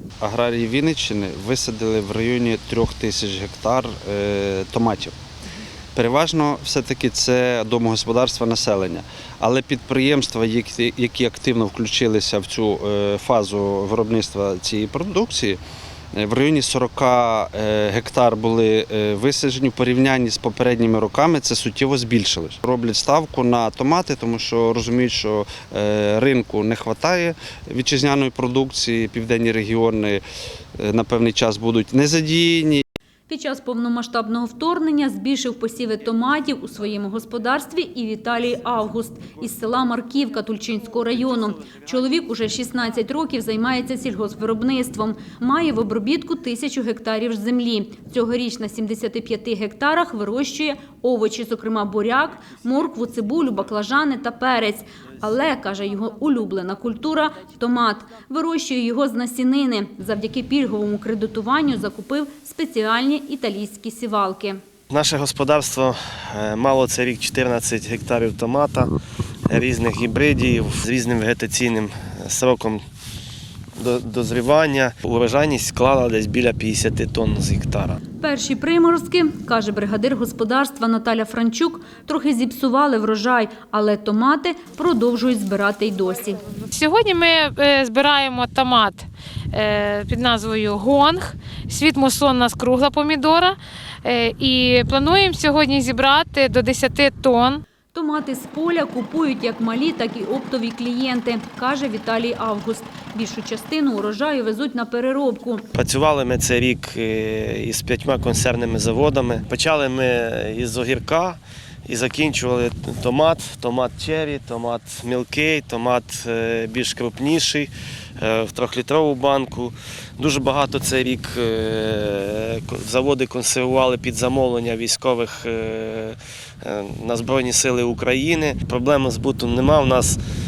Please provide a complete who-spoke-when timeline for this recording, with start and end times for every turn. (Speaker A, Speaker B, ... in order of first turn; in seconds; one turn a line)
Speaker A: 0.2-5.1
Speaker A: 6.0-15.6
Speaker A: 16.1-30.2
Speaker A: 30.8-32.8
Speaker B: 33.3-64.6
Speaker C: 64.9-68.9
Speaker C: 69.5-72.8
Speaker C: 73.8-78.0
Speaker B: 78.2-86.4
Speaker D: 86.7-97.6
Speaker B: 97.9-105.6
Speaker C: 105.7-130.2